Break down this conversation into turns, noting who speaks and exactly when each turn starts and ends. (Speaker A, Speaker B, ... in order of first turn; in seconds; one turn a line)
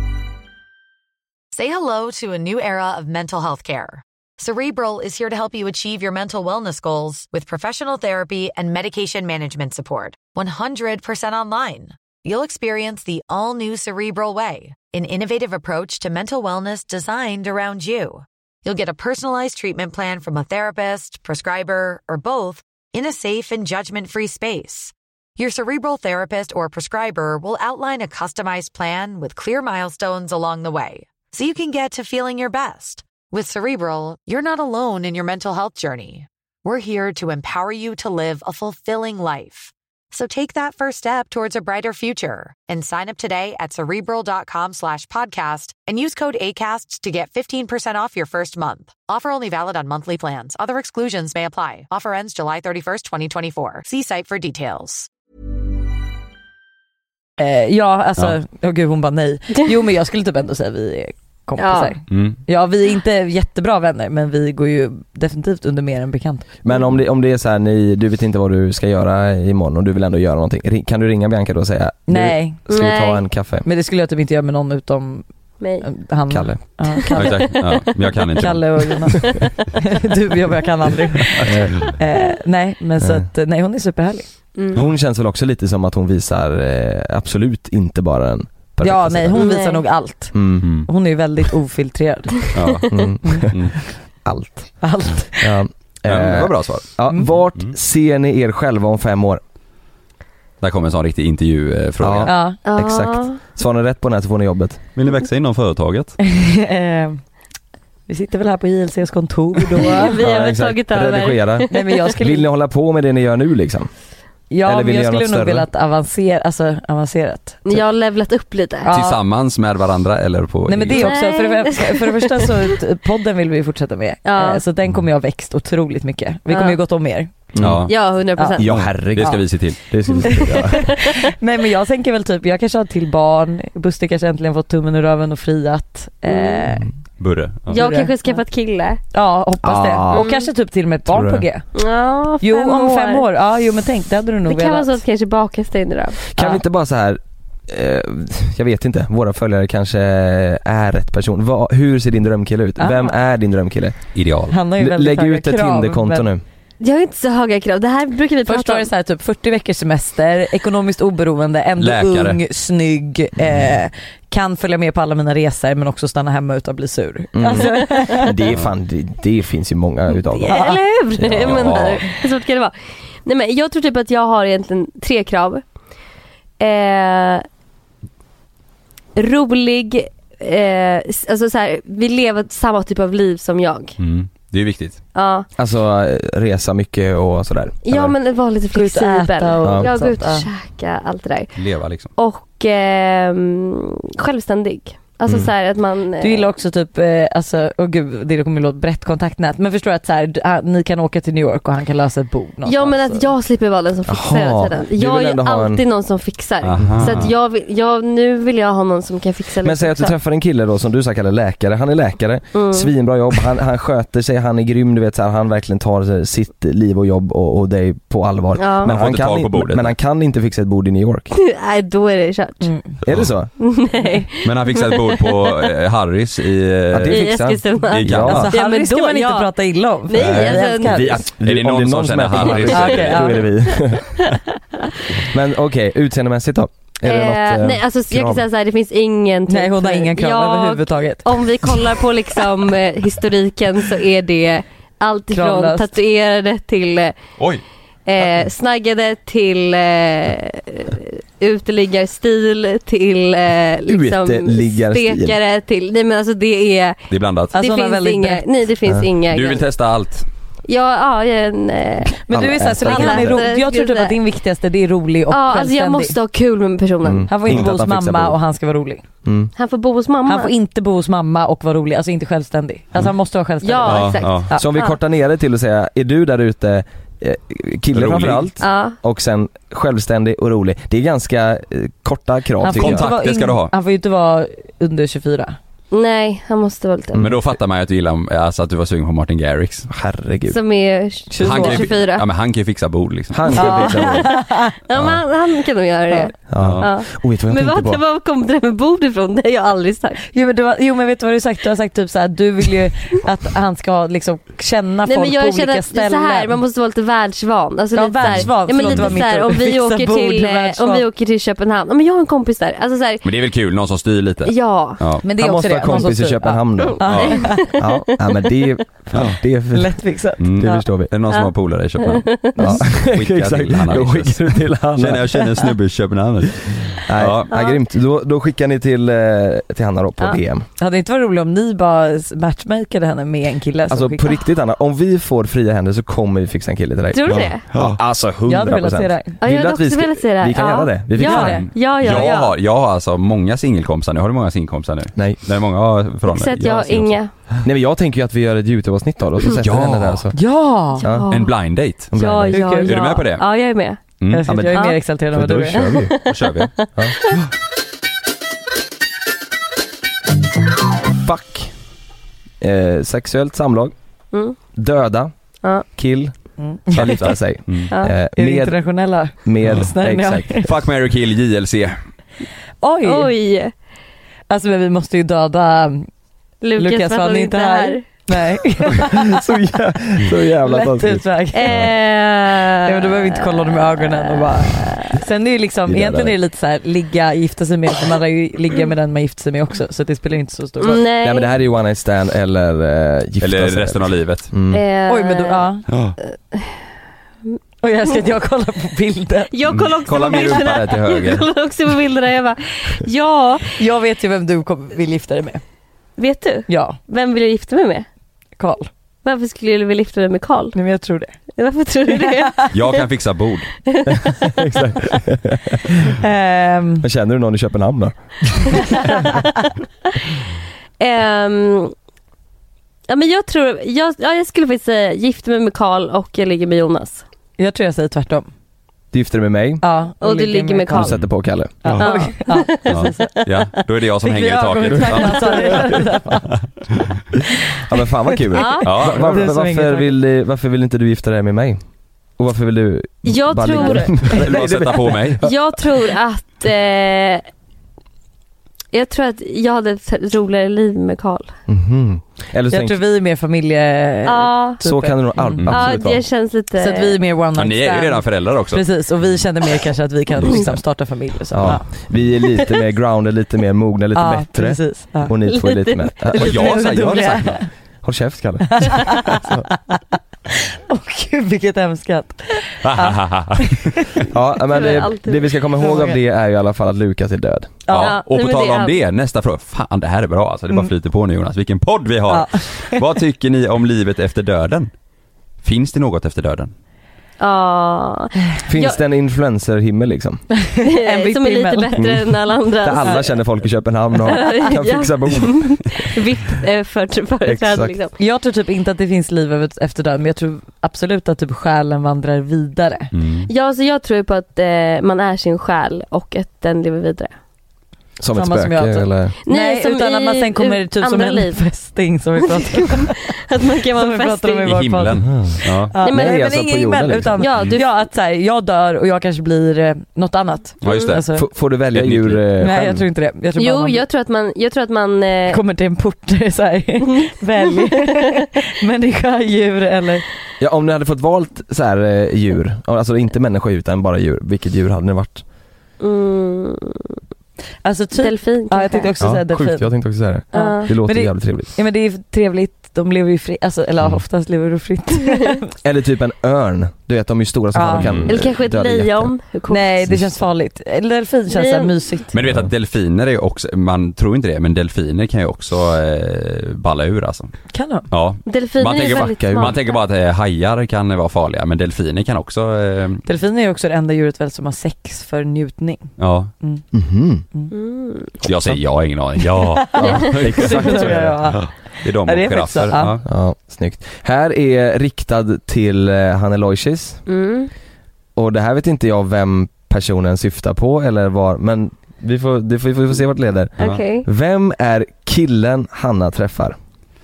Speaker A: 1.5-55.1
Speaker B: 57.4-66.5
Speaker C: 61.6-62.0
Speaker D: 62.1-62.4
Speaker E: 66.6-73.7
Speaker B: 72.1-72.9
Speaker C: 72.7-73.2
Speaker B: 73.6-77.8
Speaker C: 75.6-75.9
Speaker E: 76.3-76.6
Speaker D: 77.1-79.0
Speaker B: 78.4-84.3
Speaker D: 81.4-82.0
Speaker E: 83.0-83.3
Speaker C: 84.5-84.8
Speaker E: 84.7-89.6
Speaker B: 88.8-92.5
Speaker C: 89.3-89.8
Speaker E: 90.3-90.7
Speaker D: 90.6-90.9
Speaker D: 92.5-93.8
Speaker E: 92.9-93.7
Speaker B: 93.2-93.5
Speaker E: 94.2-94.8
Speaker B: 94.8-95.5
Speaker E: 95.3-99.4
Speaker D: 96.0-97.7
Speaker B: 97.1-97.3
Speaker D: 100.6-102.3
Speaker E: 102.0-104.8
Speaker B: 102.2-102.6
Speaker C: 102.6-103.4
Speaker D: 104.9-106.2
Speaker B: 106.2-107.2
Speaker B: 108.1-110.2
Speaker C: 109.8-111.8
Speaker E: 110.2-113.9
Speaker B: 111.7-112.5
Speaker B: 114.5-117.8
Speaker E: 114.6-115.7
Speaker C: 117.7-118.9
Speaker B: 118.8-119.2
Speaker D: 118.9-121.1
Speaker B: 120.7-127.3
Speaker C: 121.0-122.5
Speaker C: 124.2-124.6
Speaker C: 126.5-126.8
Speaker E: 127.5-128.0
Speaker D: 127.6-128.0
Speaker C: 127.9-128.7
Speaker B: 128.3-128.6
Speaker E: 128.6-130.9
Speaker D: 128.6-130.5
Speaker B: 129.2-129.4
Speaker C: 130.3-130.8
Speaker B: 130.6-136.9
Speaker C: 136.3-136.7
Speaker D: 137.2-137.8
Speaker C: 137.7-139.0
Speaker B: 137.7-138.4
Speaker B: 139.1-141.7
Speaker E: 139.6-140.3
Speaker C: 140.1-140.5
Speaker E: 141.1-141.4
Speaker C: 141.7-143.2
Speaker B: 142.4-145.0
Speaker C: 144.4-146.2
Speaker E: 146.2-154.0
Speaker B: 146.3-146.6
Speaker B: 152.8-153.1
Speaker D: 154.1-154.5
Speaker B: 154.5-156.3
Speaker E: 154.8-156.4
Speaker C: 156.8-158.9
Speaker B: 158.4-168.3
Speaker D: 161.8-162.4
Speaker E: 167.3-172.0
Speaker C: 170.4-175.6
Speaker B: 170.4-170.8
Speaker D: 171.3-172.0
Speaker C: 176.6-177.4
Speaker C: 179.2-184.0
Speaker D: 184.0-185.0
Speaker C: 185.1-185.5
Speaker E: 185.6-188.1
Speaker C: 187.8-196.5
Speaker B: 188.7-190.5
Speaker D: 191.5-192.1
Speaker E: 195.2-195.5
Speaker B: 196.2-203.3
Speaker C: 202.6-210.1
Speaker E: 204.1-205.8
Speaker D: 206.6-207.3
Speaker E: 206.8-207.3
Speaker E: 209.6-221.3
Speaker C: 212.5-212.9
Speaker C: 218.6-218.9
Speaker D: 218.8-219.9
Speaker C: 221.3-222.7
Speaker B: 222.6-222.9
Speaker E: 223.0-223.5
Speaker C: 223.6-225.6
Speaker D: 224.4-227.3
Speaker E: 226.9-228.5
Speaker C: 227.1-229.5
Speaker D: 227.9-228.5
Speaker B: 228.3-231.2
Speaker C: 230.1-231.2
Speaker E: 230.2-234.2
Speaker D: 230.9-233.3
Speaker B: 232.7-233.5
Speaker E: 235.2-238.4
Speaker C: 237.0-247.1
Speaker B: 239.5-241.8
Speaker B: 245.3-245.9
Speaker D: 247.4-247.6
Speaker C: 248.1-259.6
Speaker E: 253.8-255.4
Speaker D: 257.1-257.5
Speaker B: 257.5-258.4
Speaker E: 258.8-259.1
Speaker D: 259.3-260.2
Speaker C: 260.7-262.1
Speaker E: 262.0-263.4
Speaker B: 262.3-266.1
Speaker C: 262.8-264.1
Speaker C: 265.3-267.3
Speaker E: 267.0-268.4
Speaker B: 267.3-269.0
Speaker E: 269.2-269.5
Speaker C: 269.6-270.5
Speaker B: 270.2-274.6
Speaker C: 273.6-274.9
Speaker D: 273.8-274.5
Speaker E: 274.5-283.1
Speaker D: 277.9-278.5
Speaker C: 278.6-278.9
Speaker B: 282.6-285.6
Speaker D: 282.7-283.7
Speaker C: 285.9-287.2
Speaker D: 287.2-289.9
Speaker E: 289.9-290.6
Speaker C: 290.5-292.2
Speaker B: 291.3-291.9
Speaker D: 291.4-293.6
Speaker E: 293.3-294.3
Speaker C: 293.5-300.2
Speaker B: 293.6-294.7
Speaker E: 294.9-295.2
Speaker E: 296.5-298.0
Speaker D: 296.6-296.9
Speaker B: 300.3-306.6
Speaker C: 305.1-313.2
Speaker B: 307.9-311.0
Speaker D: 308.2-309.2
Speaker D: 313.2-315.2
Speaker C: 314.4-315.0
Speaker B: 315.2-317.7
Speaker E: 315.4-320.0
Speaker C: 317.0-318.5
Speaker D: 317.1-317.4
Speaker D: 319.1-319.4
Speaker B: 319.7-320.8
Speaker D: 320.4-327.5
Speaker E: 320.6-321.1
Speaker C: 321.3-322.6
Speaker E: 322.6-325.6
Speaker E: 327.0-330.6
Speaker C: 327.5-327.8
Speaker B: 330.8-334.3
Speaker E: 333.9-341.7
Speaker C: 337.1-337.6
Speaker D: 337.2-338.0
Speaker B: 338.5-339.4
Speaker C: 339.4-342.5
Speaker B: 341.2-341.7
Speaker D: 341.5-347.2
Speaker E: 345.1-345.4
Speaker C: 346.3-347.3
Speaker E: 347.6-350.4
Speaker D: 349.6-350.2
Speaker B: 350.3-351.0
Speaker C: 351.0-351.5
Speaker E: 351.0-351.3
Speaker D: 351.3-352.1
Speaker E: 352.1-352.6
Speaker C: 352.1-354.0
Speaker B: 352.5-352.9
Speaker D: 352.7-353.4
Speaker D: 354.2-354.5
Speaker B: 354.3-356.0
Speaker E: 354.4-356.2
Speaker C: 354.7-355.0
Speaker C: 355.8-356.6
Speaker D: 356.3-356.7
Speaker E: 361.2-361.7
Speaker E: 362.6-363.9
Speaker E: 364.7-365.3
Speaker E: 365.8-366.3
Speaker B: 366.6-367.2
Speaker E: 366.9-368.8
Speaker D: 366.9-367.9
Speaker B: 368.3-370.7
Speaker E: 369.4-370.6
Speaker D: 370.6-371.9
Speaker B: 372.8-373.3
Speaker C: 373.0-373.7
Speaker B: 374.5-376.1
Speaker C: 376.6-378.1
Speaker B: 376.8-379.4
Speaker E: 379.3-381.2
Speaker B: 380.6-381.8
Speaker C: 381.5-385.2
Speaker B: 382.8-391.0
Speaker E: 385.9-386.4
Speaker C: 390.8-391.5
Speaker E: 391.2-394.8
Speaker D: 393.4-394.5
Speaker C: 394.7-395.6
Speaker B: 395.1-395.8
Speaker D: 395.9-396.1
Speaker C: 396.5-396.8
Speaker B: 397.8-399.5
Speaker C: 399.5-403.8
Speaker D: 399.7-401.4
Speaker E: 400.2-401.4
Speaker B: 403.8-405.6
Speaker C: 406.2-408.1
Speaker B: 406.7-407.0
Speaker B: 408.6-408.9
Speaker C: 409.2-410.8
Speaker B: 410.7-411.4
Speaker C: 411.6-413.0
Speaker B: 412.1-412.5
Speaker D: 412.7-413.7
Speaker C: 413.9-414.5
Speaker E: 414.3-416.2
Speaker B: 416.1-417.1
Speaker E: 417.0-419.1
Speaker C: 421.0-421.9
Speaker C: 423.1-427.2
Speaker B: 427.6-428.5
Speaker E: 429.1-429.8
Speaker B: 429.8-431.1
Speaker C: 430.2-431.1
Speaker E: 430.9-431.9
Speaker B: 431.8-433.3
Speaker D: 431.8-432.1
Speaker C: 432.0-433.7
Speaker D: 432.9-436.0
Speaker B: 434.2-436.6
Speaker E: 437.8-441.8
Speaker C: 438.6-438.9
Speaker B: 438.6-440.1
Speaker D: 438.8-439.3
Speaker E: 442.4-445.6
Speaker C: 443.2-444.7
Speaker D: 444.2-445.4
Speaker C: 445.4-447.4
Speaker C: 448.9-451.5
Speaker E: 451.7-453.0
Speaker B: 452.7-455.7
Speaker C: 454.2-454.8
Speaker E: 454.8-456.2
Speaker D: 455.6-455.8
Speaker C: 455.7-457.2
Speaker B: 456.8-461.9
Speaker D: 457.6-459.1
Speaker D: 460.4-460.7
Speaker E: 461.5-466.9
Speaker D: 461.6-462.3
Speaker B: 464.1-465.3
Speaker C: 465.4-467.3
Speaker D: 466.4-467.6
Speaker B: 466.4-467.7
Speaker E: 468.0-469.6
Speaker B: 468.7-470.0
Speaker B: 470.9-473.8
Speaker D: 472.8-474.2
Speaker E: 474.3-477.8
Speaker C: 474.7-475.5
Speaker B: 475.8-476.2
Speaker B: 477.9-478.2
Speaker D: 477.9-484.9
Speaker C: 478.0-479.0
Speaker B: 482.3-483.0
Speaker D: 485.6-486.7
Speaker C: 487.4-489.0
Speaker E: 488.6-490.4
Speaker B: 490.6-491.9
Speaker C: 490.9-493.3
Speaker E: 492.0-496.1
Speaker C: 494.2-498.1
Speaker E: 497.4-497.9
Speaker B: 498.2-503.1
Speaker D: 503.1-503.5
Speaker C: 503.5-507.3
Speaker E: 508.2-509.3
Speaker B: 508.3-513.3
Speaker C: 509.4-511.8
Speaker C: 512.7-514.9
Speaker B: 513.9-521.5
Speaker D: 514.6-515.9
Speaker E: 515.3-515.6
Speaker C: 516.0-516.4
Speaker E: 516.1-517.5
Speaker C: 517.4-518.0
Speaker D: 520.8-521.2
Speaker E: 521.3-523.0
Speaker D: 521.9-522.4
Speaker B: 522.6-524.0
Speaker C: 523.5-525.6
Speaker B: 525.5-530.2
Speaker C: 527.2-528.1
Speaker E: 530.6-535.4
Speaker C: 536.0-537.1
Speaker B: 537.8-539.9
Speaker C: 538.2-539.1
Speaker E: 539.2-541.7
Speaker B: 540.5-545.7
Speaker C: 540.5-540.9
Speaker E: 545.8-549.3
Speaker B: 547.7-548.2
Speaker D: 548.0-548.3
Speaker C: 548.3-550.0
Speaker B: 549.7-552.3
Speaker C: 551.5-552.0
Speaker D: 552.3-557.5
Speaker B: 557.7-558.1
Speaker D: 558.1-563.2
Speaker C: 558.5-559.8
Speaker E: 559.0-559.7
Speaker B: 563.2-566.8
Speaker D: 566.2-566.5
Speaker E: 566.9-567.4
Speaker C: 567.7-568.4
Speaker D: 568.4-573.2
Speaker B: 569.6-573.1
Speaker E: 570.0-571.4
Speaker C: 570.0-570.9
Speaker E: 573.2-577.2
Speaker C: 577.3-577.7
Speaker E: 578.4-586.8
Speaker C: 583.8-584.3